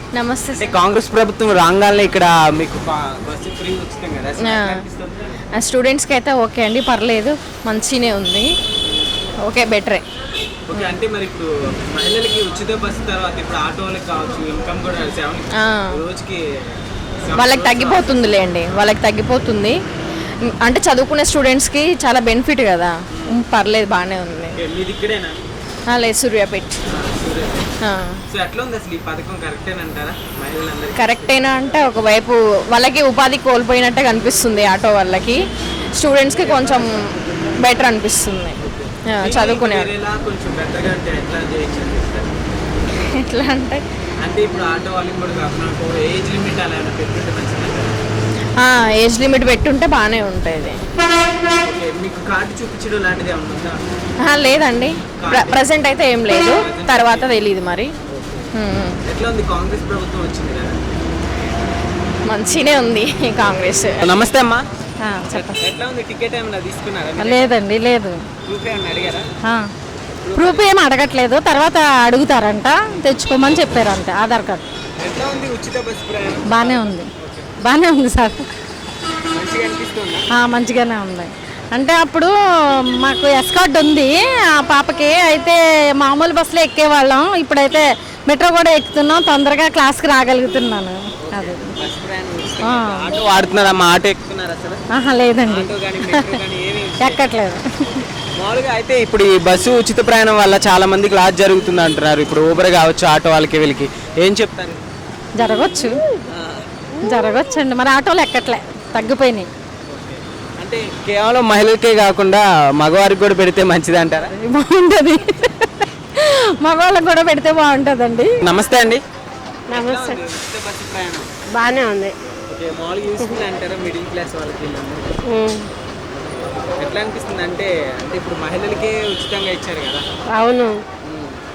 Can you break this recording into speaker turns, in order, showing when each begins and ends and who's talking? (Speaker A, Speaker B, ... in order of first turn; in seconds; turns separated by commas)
Speaker A: 0.1-0.8, Speaker B: 0.6-5.3, Speaker A: 4.4-4.8, Speaker A: 5.6-8.5, Speaker A: 9.5-10.0, Speaker B: 10.7-16.4, Speaker A: 15.6-16.0, Speaker B: 17.2-18.1, Speaker A: 17.4-19.8, Speaker A: 20.4-24.6, Speaker B: 23.1-23.4, Speaker B: 24.6-25.4, Speaker A: 25.9-26.8, Speaker B: 26.9-27.7, Speaker A: 27.8-28.2, Speaker B: 28.3-31.7, Speaker A: 31.0-35.4, Speaker A: 36.0-38.6, Speaker B: 38.6-42.3, Speaker A: 39.1-39.9, Speaker A: 43.0-43.8, Speaker B: 44.2-48.0, Speaker A: 48.6-50.8, Speaker B: 51.5-53.8, Speaker A: 54.3-57.9, Speaker B: 55.2-55.8, Speaker B: 56.3-57.4, Speaker B: 58.1-58.5, Speaker A: 58.5-59.0, Speaker B: 59.0-60.8, Speaker A: 62.3-64.0, Speaker B: 64.0-64.7, Speaker C: 65.0-65.7, Speaker B: 65.3-67.6, Speaker C: 67.2-68.2, Speaker B: 68.5-69.3, Speaker B: 70.2-70.7, Speaker C: 70.4-74.6, Speaker B: 75.0-77.5, Speaker C: 76.5-77.1, Speaker C: 77.7-78.5, Speaker B: 79.3-80.3, Speaker C: 80.3-82.3, Speaker C: 83.0-91.6, Speaker B: 91.2-94.8, Speaker C: 92.6-93.2, Speaker C: 94.9-96.4, Speaker B: 95.5-97.2, Speaker C: 97.0-98.0, Speaker B: 98.4-104.8, Speaker C: 105.4-105.9, Speaker B: 106.3-106.6, Speaker C: 107.0-109.5, Speaker B: 109.9-114.4, Speaker C: 114.3-118.3, Speaker B: 118.4-119.0, Speaker D: 119.7-120.2, Speaker B: 119.7-121.3, Speaker D: 121.5-122.2, Speaker B: 122.5-125.2, Speaker D: 125.3-125.7, Speaker B: 126.8-130.0, Speaker D: 130.3-130.8, Speaker B: 131.1-131.4